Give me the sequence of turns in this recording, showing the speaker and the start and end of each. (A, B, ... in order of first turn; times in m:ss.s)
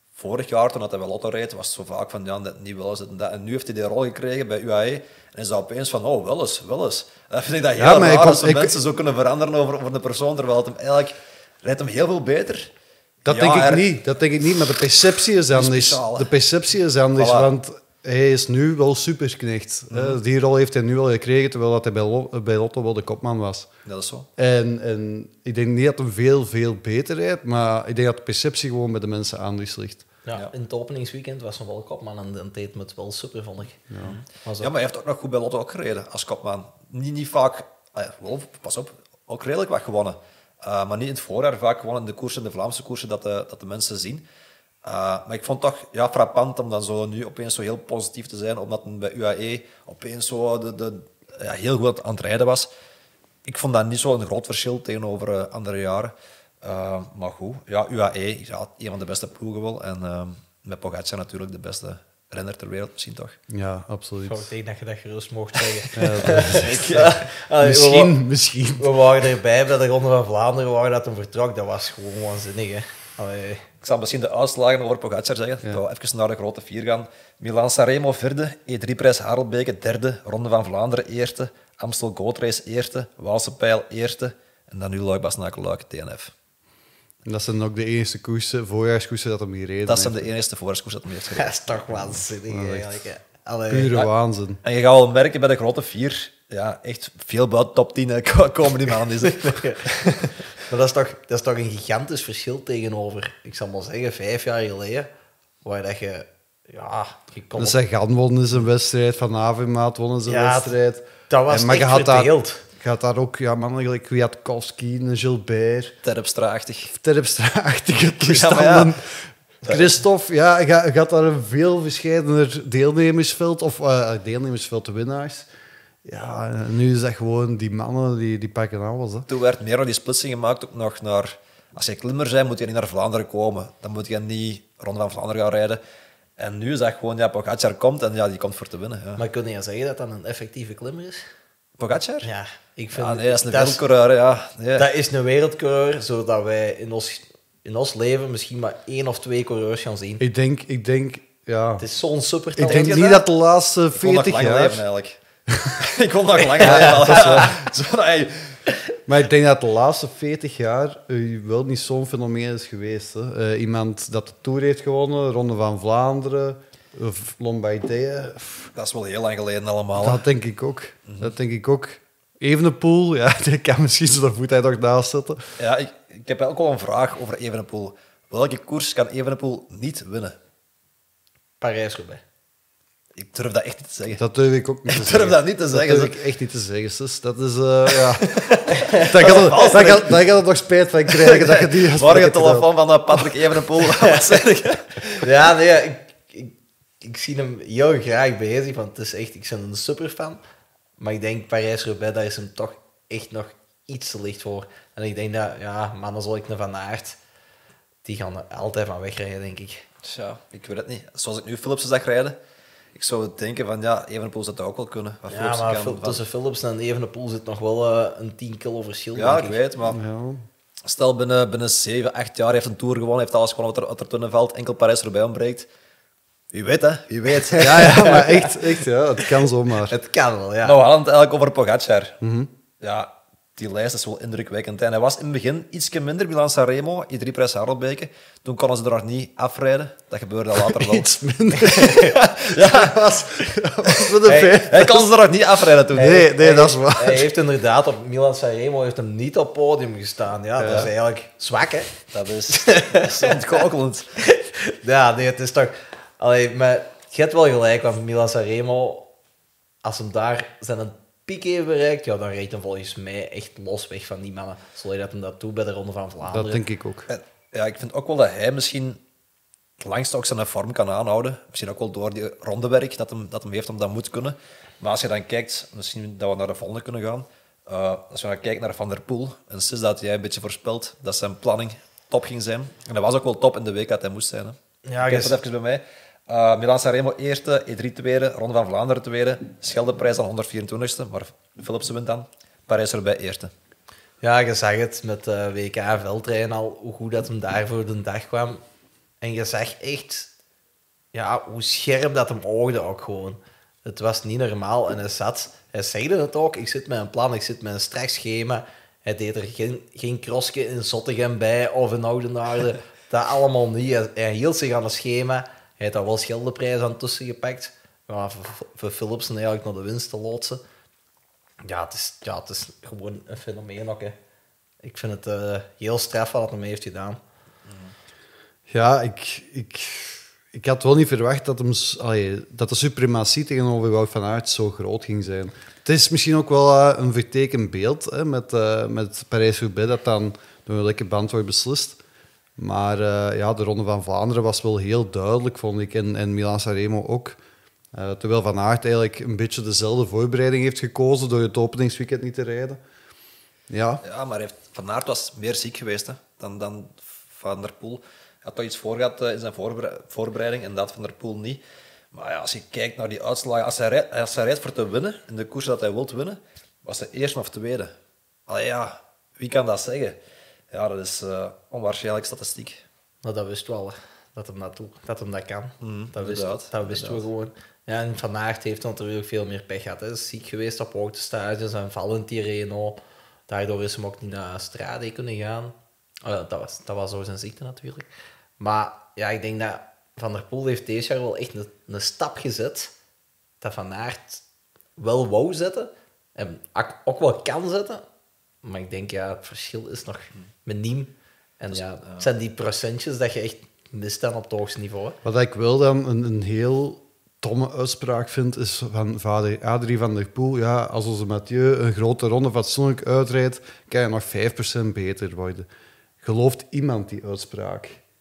0:00.2-0:12.7 A
0:07.8-0:08.8 B
0:13.2-0:23.7 B
0:13.3-0:13.9 A
0:15.5-0:16.3 A
0:17.2-0:17.5 A
0:19.9-0:20.2 A
0:23.8-0:24.3 A
0:24.4-0:30.1 B
0:30.3-0:34.7 C
0:33.9-0:34.2 B
0:34.0-0:44.2 A
0:44.8-0:52.7 A
0:53.4-1:03.4 A
1:03.5-1:04.5 B
1:04.3-1:08.2 C
1:06.0-1:06.7 B
1:06.2-1:07.3 A
1:07.6-1:09.3 B
1:08.8-1:13.7 C
1:13.8-1:26.3 A
1:27.2-1:30.3 B
1:29.9-1:31.8 A
1:31.3-1:34.1 C
1:32.5-1:33.0 B
1:33.7-1:34.6 B
1:34.6-1:40.3 A
1:39.2-1:45.1 C
1:45.6-1:47.8 C
1:47.6-1:56.0 B
1:50.3-1:50.8 C
1:51.3-1:52.6 C
1:56.0-1:56.9 A
1:56.9-2:05.5 B
1:58.2-1:58.9 A
1:59.6-2:00.0 A
2:06.0-2:09.3 B
2:09.3-2:15.8 A
2:16.4-2:19.2 A
2:19.2-2:21.2 C
2:21.8-2:22.3 A
2:22.2-2:23.8 C
2:22.9-2:24.9 A
2:24.8-2:30.2 C
2:30.2-2:31.8 B
2:31.8-2:33.2 C
2:32.6-2:34.8 B
2:32.6-2:33.2 A
2:34.0-2:35.2 A
2:35.5-2:35.8 B
2:35.8-2:38.6 A
2:36.6-2:37.2 C
2:36.6-2:37.5 B
2:39.1-2:48.7 B
2:48.7-2:50.2 A
2:50.0-2:55.5 B
2:51.1-2:51.3 A
2:55.6-3:00.4 A
3:01.6-3:02.2 C
3:03.2-3:04.2 A
3:04.2-3:08.4 B
3:04.9-3:06.2 A
3:07.9-3:10.3 A
3:08.8-3:09.8 C
3:08.9-3:12.7 B
3:11.1-3:15.3 A
3:15.2-3:20.4 C
3:21.0-3:27.2 C
3:28.0-3:29.9 C
3:30.0-3:32.4 A
3:33.0-3:36.2 A
3:35.3-3:39.6 C
3:39.2-3:40.0 A
3:39.9-3:40.4 B
3:40.8-3:45.7 A
3:46.5-3:47.9 A
3:47.5-3:50.8 C
3:47.6-3:50.0 B
3:50.6-3:52.2 A
3:52.2-3:52.5 B
3:52.8-4:01.1 A
4:00.8-4:05.1 B
4:01.6-4:02.2 C
4:01.7-4:03.0 A
4:04.2-4:04.6 C
4:04.3-4:06.3 A
4:05.9-4:07.3 B
4:05.9-4:12.0 C
4:10.6-4:10.9 A
4:12.1-4:14.1 A
4:12.5-4:13.6 C
4:14.2-4:19.1 C
4:19.8-4:26.6 C
4:26.3-4:27.1 B
4:27.1-4:29.0 A
4:29.8-4:53.5 A
4:44.9-4:45.4 C
4:54.2-4:58.6 C
4:59.2-5:00.3 C
5:01.1-5:20.6 C
5:21.6-5:24.2 C
5:24.8-5:27.2 C
5:27.7-5:27.9 A
5:28.7-5:42.0 B
5:42.6-5:47.4 B
5:47.9-5:52.8 B
5:53.7-5:54.0 B
5:54.0-6:01.6 A
6:02.1-6:07.9 A
6:08.5-6:10.2 A
6:10.7-6:12.8 A
6:13.2-6:28.1 C
6:15.8-6:17.3 A
6:28.6-6:32.9 C
6:33.6-6:34.4 C
6:35.0-6:38.0 C
6:38.6-6:45.2 C
6:41.7-6:42.2 A
6:45.2-6:55.7 B
6:56.2-6:58.0 B